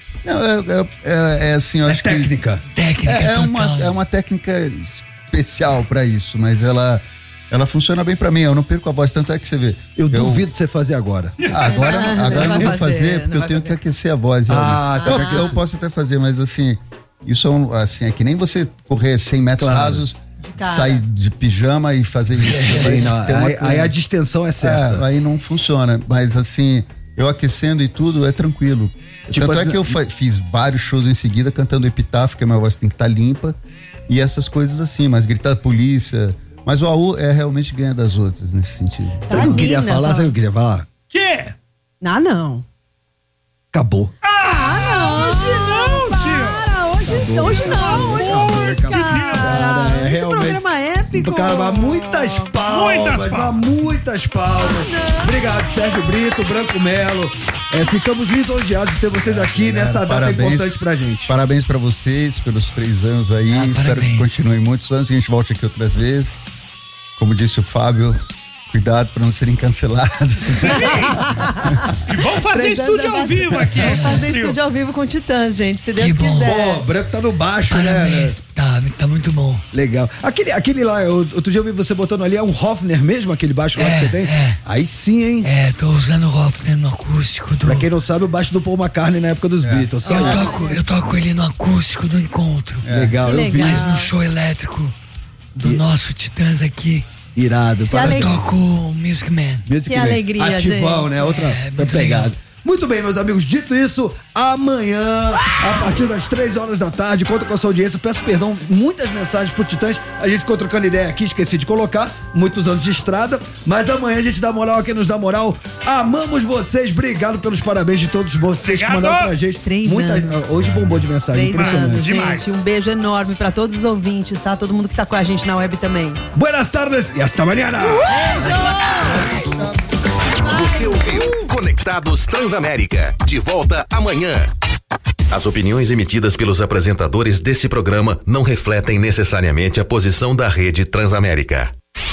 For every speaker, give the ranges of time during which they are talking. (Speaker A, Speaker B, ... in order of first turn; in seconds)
Speaker A: 0.2-2.3, 3.0-10.4, 11.4-23.9, 24.6-33.6, 34.1-39.3, 59.2-60.8, 61.3-66.4, 67.2-68.2, 68.7-70.8, 89.6-90.0, 92.8-93.3, 120.5-121.1, 128.4-129.8
Speaker B: 1.9-2.6, 10.0-11.5, 12.3-12.7, 14.5-15.6, 19.6-20.1, 22.6-25.1, 29.3-30.0, 39.3-40.9, 43.7-44.1, 47.0-50.6, 51.1-61.3, 76.4-78.3, 79.7-85.5, 87.7-90.7, 92.9-93.9, 97.3-98.4, 99.7-122.1, 126.3-128.2
Speaker C: 2.7-4.0, 22.4-23.1, 63.5-64.3, 76.0-76.5, 77.7-79.6, 83.8-84.6, 85.4-87.9, 90.1-92.9, 93.4-94.9, 95.5-97.1, 98.0-99.7, 101.2-102.3
Speaker D: 11.6-13.8, 15.0-15.6, 20.4-21.0, 39.3-40.3, 42.0-42.6, 44.4-52.5, 54.6-55.6, 70.7-71.7, 72.5-76.8, 90.0-90.9, 93.2-94.1, 97.9-98.4, 99.8-101.1, 119.6-120.4, 121.3-126.2, 127.8-129.5, 130.5-131.4
Speaker E: 41.1-41.5, 44.2-46.7, 47.6-49.6, 52.7-53.7, 70.6-71.2, 72.1-74.6, 118.6-119.3, 121.5-122.6
Speaker F: 130.4-134.5, 135.3-141.7